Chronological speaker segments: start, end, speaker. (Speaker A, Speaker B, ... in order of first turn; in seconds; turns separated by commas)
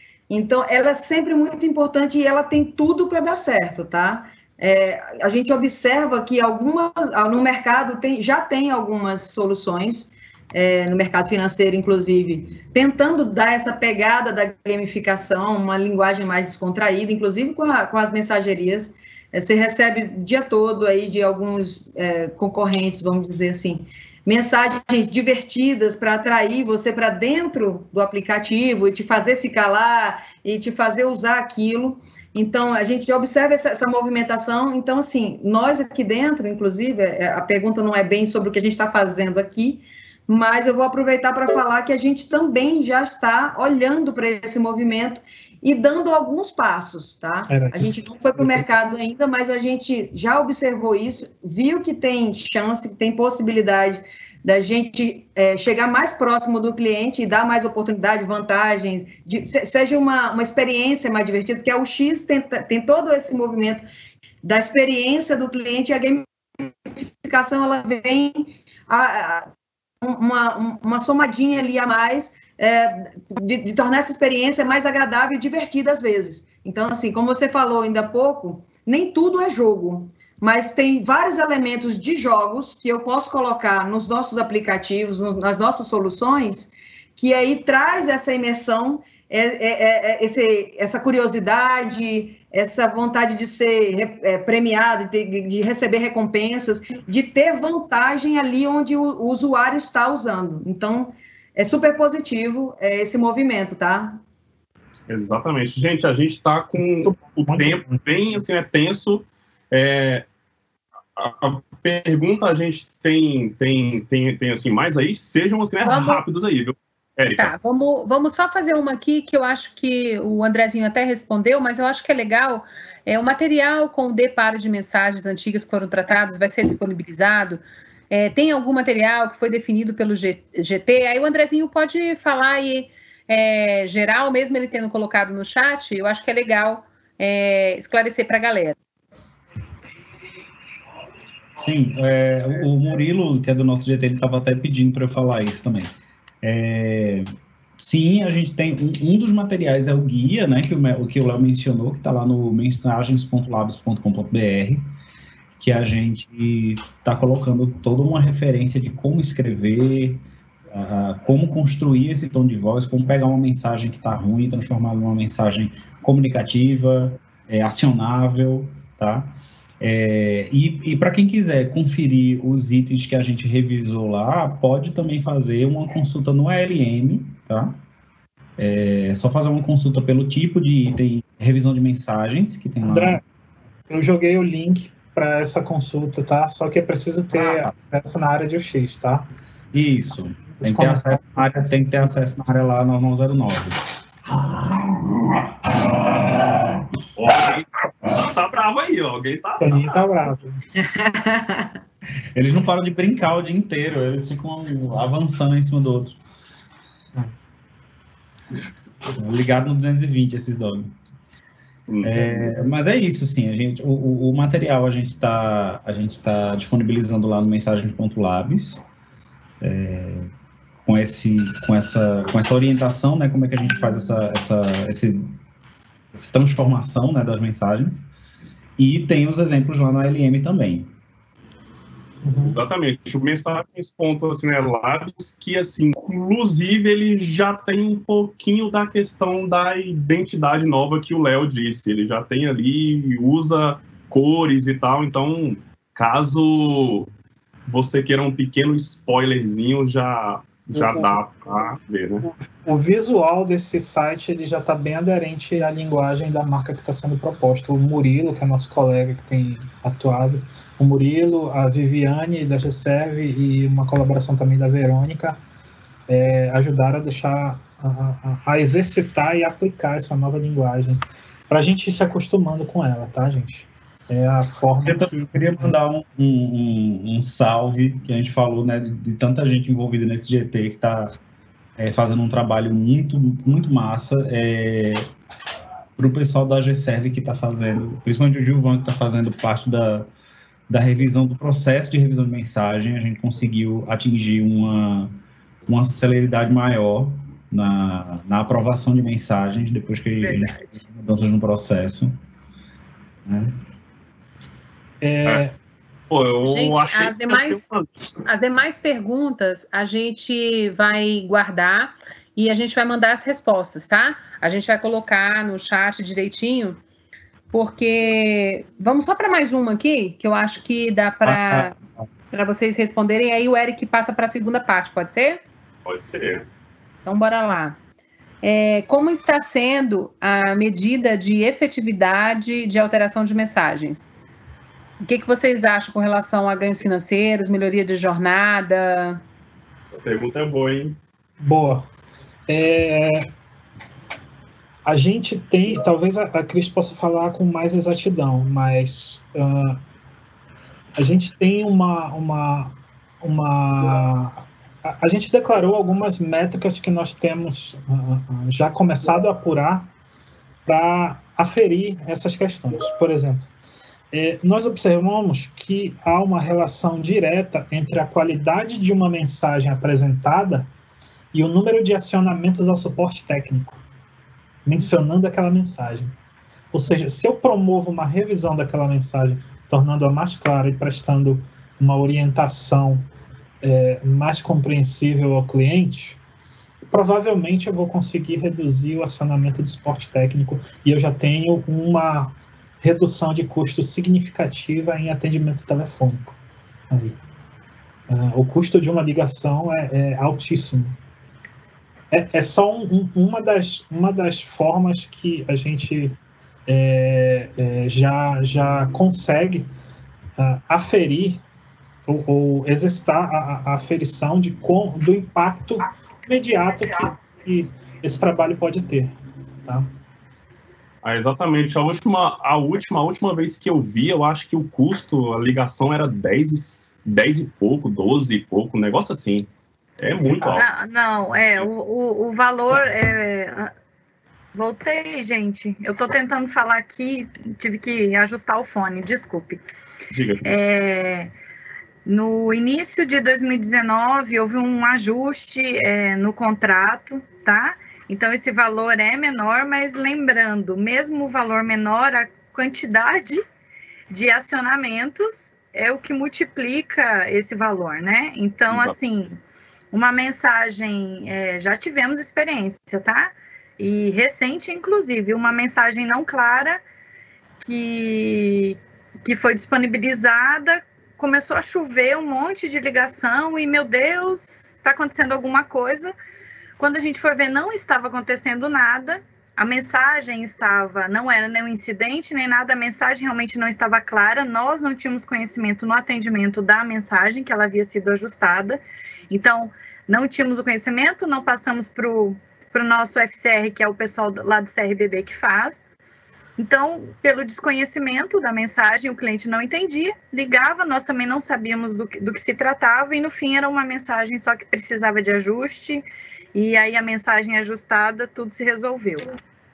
Speaker A: 0.3-63.9, Speaker B: 47.5-48.7, Speaker A: 64.4-69.5, Speaker A: 70.0-104.2, Speaker C: 105.1-110.3, Speaker B: 107.0-108.0, Speaker C: 111.2-117.5, Speaker D: 115.8-116.2, Speaker D: 117.4-138.8, Speaker E: 141.6-154.9, Speaker E: 155.6-177.8, Speaker E: 178.6-183.2, Speaker B: 182.8-183.2, Speaker B: 183.9-189.3, Speaker E: 187.3-187.8, Speaker E: 189.7-193.8, Speaker B: 190.6-191.6, Speaker C: 197.2-200.0, Speaker B: 199.6-200.6, Speaker A: 200.8-201.7, Speaker E: 202.3-206.2, Speaker E: 209.1-210.9, Speaker C: 211.9-212.5, Speaker E: 212.0-218.8, Speaker E: 219.6-220.3, Speaker E: 220.8-225.3, Speaker E: 226.1-228.1, Speaker E: 228.8-230.9, Speaker B: 232.2-232.6, Speaker C: 232.4-247.1, Speaker C: 247.7-252.3, Speaker B: 250.8-251.2, Speaker B: 252.2-265.4, Speaker B: 266.1-275.8, Speaker E: 274.8-281.2, Speaker E: 281.8-285.1, Speaker E: 286.0-290.1, Speaker E: 290.7-302.2, Speaker F: 300.2-300.7, Speaker E: 303.3-303.6, Speaker B: 305.0-305.6, Speaker C: 306.1-308.1, Speaker D: 306.4-307.7, Speaker D: 308.2-316.8, Speaker D: 317.5-321.7, Speaker E: 321.2-321.8, Speaker D: 322.3-325.4, Speaker C: 325.9-326.5, Speaker D: 327.1-327.8, Speaker D: 328.4-334.1, Speaker D: 335.0-339.2, Speaker C: 340.0-341.0, Speaker B: 341.4-341.9, Speaker B: 342.5-343.3, Speaker B: 344.9-349.8, Speaker B: 350.9-359.9, Speaker B: 360.7-363.5, Speaker B: 364.1-370.7, Speaker B: 371.3-373.8, Speaker B: 374.6-376.1, Speaker B: 376.7-383.1, Speaker B: 383.6-386.2, Speaker B: 386.9-396.4, Speaker B: 396.9-397.2, Speaker B: 398.1-401.0, Speaker B: 402.1-409.7, Speaker B: 410.4-411.4, Speaker B: 412.1-419.9, Speaker C: 421.0-430.7, Speaker F: 430.5-433.7, Speaker F: 434.5-439.6, Speaker C: 440.1-440.7, Speaker F: 440.4-441.3, Speaker F: 442.1-453.4, Speaker F: 454.1-466.8, Speaker C: 458.7-459.0, Speaker F: 467.6-476.1, Speaker F: 476.8-495.9, Speaker F: 496.6-509.3